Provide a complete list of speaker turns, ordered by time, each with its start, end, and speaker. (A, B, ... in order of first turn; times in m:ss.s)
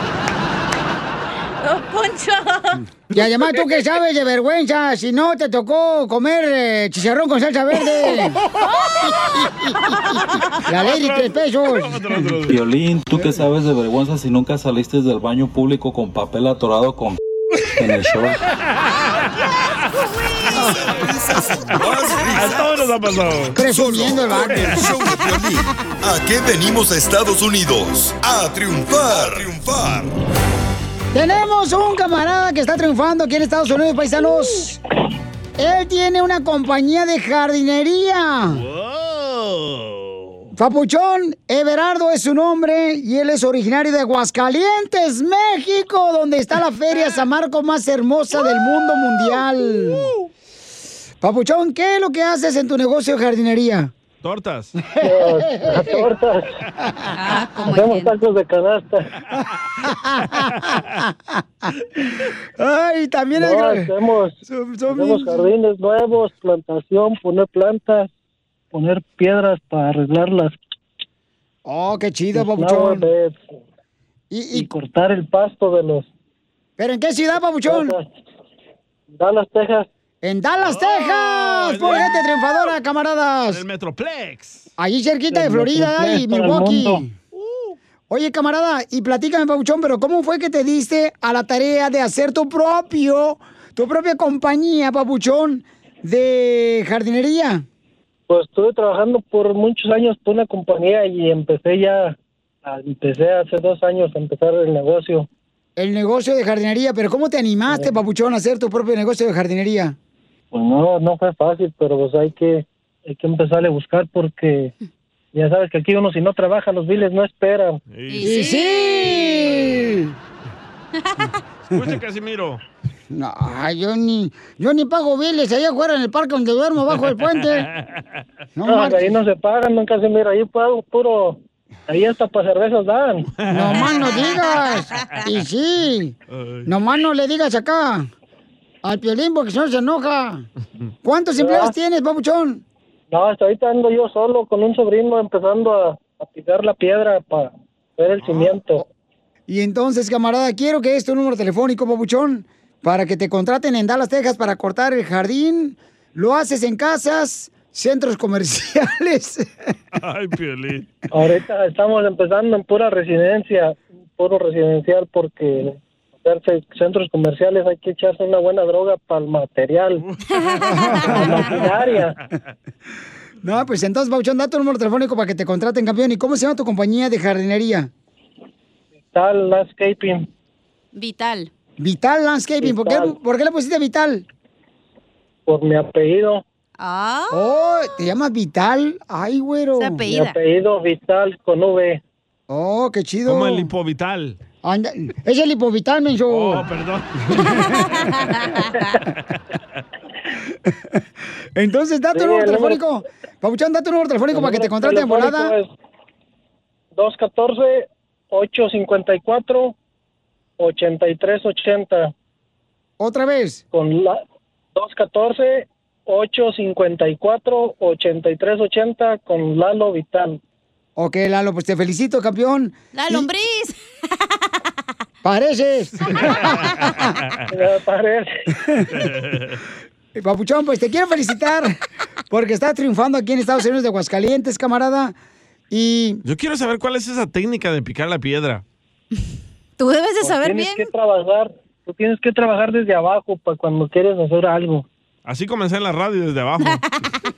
0:01.6-0:02.8 A
0:03.1-0:08.4 B
0:08.0-0:10.6 A
0:10.7-0:12.2 B
0:10.8-0:12.6 C
0:12.5-0:17.2 D
0:17.8-0:18.4 D
0:20.4-0:22.9 E
0:22.3-0:23.6 C
0:23.6-0:24.8 B
0:23.6-0:30.1 E
0:24.4-0:24.9 C
0:31.1-0:34.8 B
0:35.6-0:38.6 B
0:38.6-0:40.2 C
0:40.6-0:50.1 B
0:51.2-0:53.9 B
0:54.2-0:54.7 C
0:54.9-0:56.0 B
0:55.0-0:56.5 F
0:56.8-0:57.1 B
0:57.1-0:58.1 A
0:57.7-0:59.1 F
0:59.8-1:01.8 B
1:02.6-1:03.9 B
1:03.4-1:04.4 F
1:04.5-1:05.4 B
1:04.9-1:08.1 F
1:08.7-1:10.6 F
1:11.7-1:13.0 B
1:12.4-1:13.6 F
1:14.3-1:14.7 B
1:14.5-1:16.1 F
1:16.8-1:17.9 B
1:17.6-1:18.1 F
1:19.2-1:19.9 F
1:20.2-1:23.6 B
1:20.6-1:22.7 C
1:23.5-1:24.7 C
1:24.8-1:27.1 B
1:25.3-1:27.0 F
1:27.4-1:27.7 C
1:28.1-1:37.6 B
1:38.3-1:45.3 F
1:45.8-1:50.0 B
1:50.5-1:54.7 F
1:55.3-1:57.8 F
1:57.9-1:58.4 C
1:58.1-1:59.6 A
1:58.2-2:00.1 B
2:01.0-2:01.4 A
2:01.7-2:02.6 C
2:03.1-2:07.7 B
2:08.6-2:09.1 B
2:08.7-2:13.3 F
2:13.4-2:13.9 C
2:13.5-2:16.2 B
2:13.8-2:15.2 A
2:16.3-2:16.7 C
2:16.7-2:18.1 B
2:18.8-2:20.4 B
2:21.0-2:22.6 B
2:21.4-2:21.7 F
2:23.1-2:28.8 F
2:28.2-2:28.6 C
2:29.5-2:39.7 B
2:40.0-2:40.9 C
2:41.1-2:50.0 F
2:50.1-2:50.8 C
2:50.3-2:51.4 A
2:50.7-2:51.6 B
2:51.1-2:52.2 F
2:53.4-2:57.9 B
2:59.1-3:00.3 F
3:01.0-3:01.5 A
3:01.8-3:04.2 B
3:02.6-3:03.2 F
3:05.5-3:06.4 F
3:06.8-3:07.4 A
3:07.3-3:10.0 B
3:09.8-3:10.4 A
3:10.1-3:12.0 F
3:12.5-3:13.7 B
3:13.3-3:14.4 C
3:14.6-3:16.6 B
3:16.3-3:18.4 C
3:17.6-3:19.0 A
3:21.6-3:25.5 B
3:22.1-3:22.8 F
3:24.3-3:25.7 F
3:27.0-3:29.7 F
3:30.6-3:32.1 F
3:33.0-3:33.6 B
3:33.7-3:34.2 F
3:34.8-3:40.4 F
3:41.0-3:43.3 B
3:42.9-3:44.4 A
3:45.2-3:47.1 B
3:47.0-3:47.4 C
3:47.5-3:48.4 F
3:49.1-3:49.4 C
3:50.2-3:51.8 B
3:52.3-3:55.2 B
3:55.7-3:56.2 B
3:56.2-3:58.6 C
3:59.8-4:00.9 A
4:00.2-4:04.9 F
4:05.3-4:06.8 C